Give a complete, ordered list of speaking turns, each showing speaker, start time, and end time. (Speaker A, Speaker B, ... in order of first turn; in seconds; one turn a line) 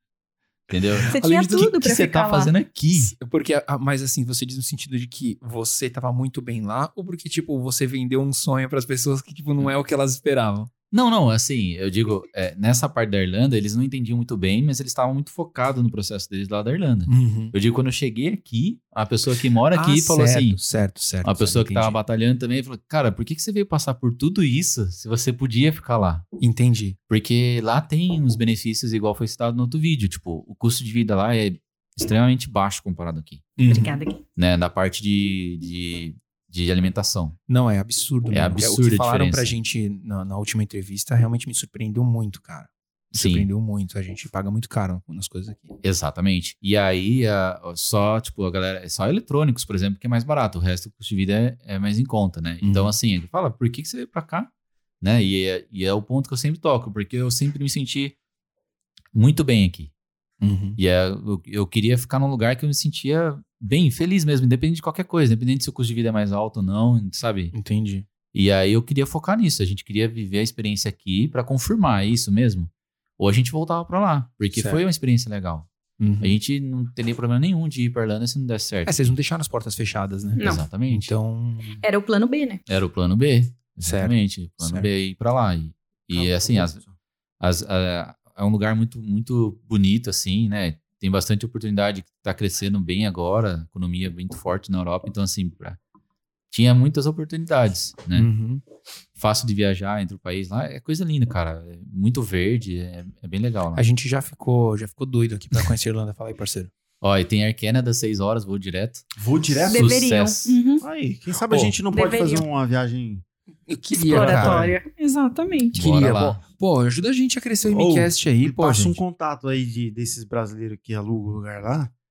Speaker A: 0.7-1.2
Speaker B: 1.1-2.5
Speaker C: 1.2-1.7
Speaker D: 1.3-3.1
Speaker A: 1.8-3.1
Speaker C: 3.2-10.7
Speaker A: 10.9-20.6
Speaker C: 17.1-17.5
Speaker C: 19.7-22.0
Speaker A: 21.2-26.3
Speaker C: 26.4-27.0
Speaker A: 27.1-33.5
Speaker C: 33.6-34.0
Speaker B: 33.7-34.2
Speaker A: 34.4-37.4
Speaker C: 37.5-45.8
Speaker A: 38.3-39.5
Speaker A: 43.1-43.5
Speaker A: 45.8-54.5
Speaker C: 52.6-53.0
Speaker A: 55.0-58.2
Speaker A: 59.1-59.9
Speaker C: 60.4-60.8
Speaker A: 60.8-67.5
Speaker C: 67.5-68.1
Speaker A: 68.3-75.7
Speaker C: 74.5-74.8
Speaker C: 76.0-76.3
Speaker A: 76.2-79.1
Speaker C: 78.9-81.8
Speaker B: 80.4-80.6
Speaker A: 80.4-81.1
Speaker B: 81.8-82.6
Speaker A: 82.7-86.8
Speaker C: 83.8-84.9
Speaker D: 86.1-86.9
Speaker A: 87.4-95.8
Speaker A: 96.5-98.3
Speaker C: 98.1-98.6
Speaker A: 99.2-103.8
Speaker C: 103.8-106.7
Speaker A: 107.0-109.1
Speaker D: 109.2-110.0
Speaker A: 109.6-110.6
Speaker B: 109.7-110.8
Speaker D: 110.8-113.2
Speaker A: 111.5-111.8
Speaker B: 111.9-112.5
Speaker C: 113.7-114.7
Speaker B: 113.9-115.8
Speaker D: 114.1-114.8
Speaker A: 115.7-116.4
Speaker C: 115.8-119.0
Speaker D: 117.7-121.9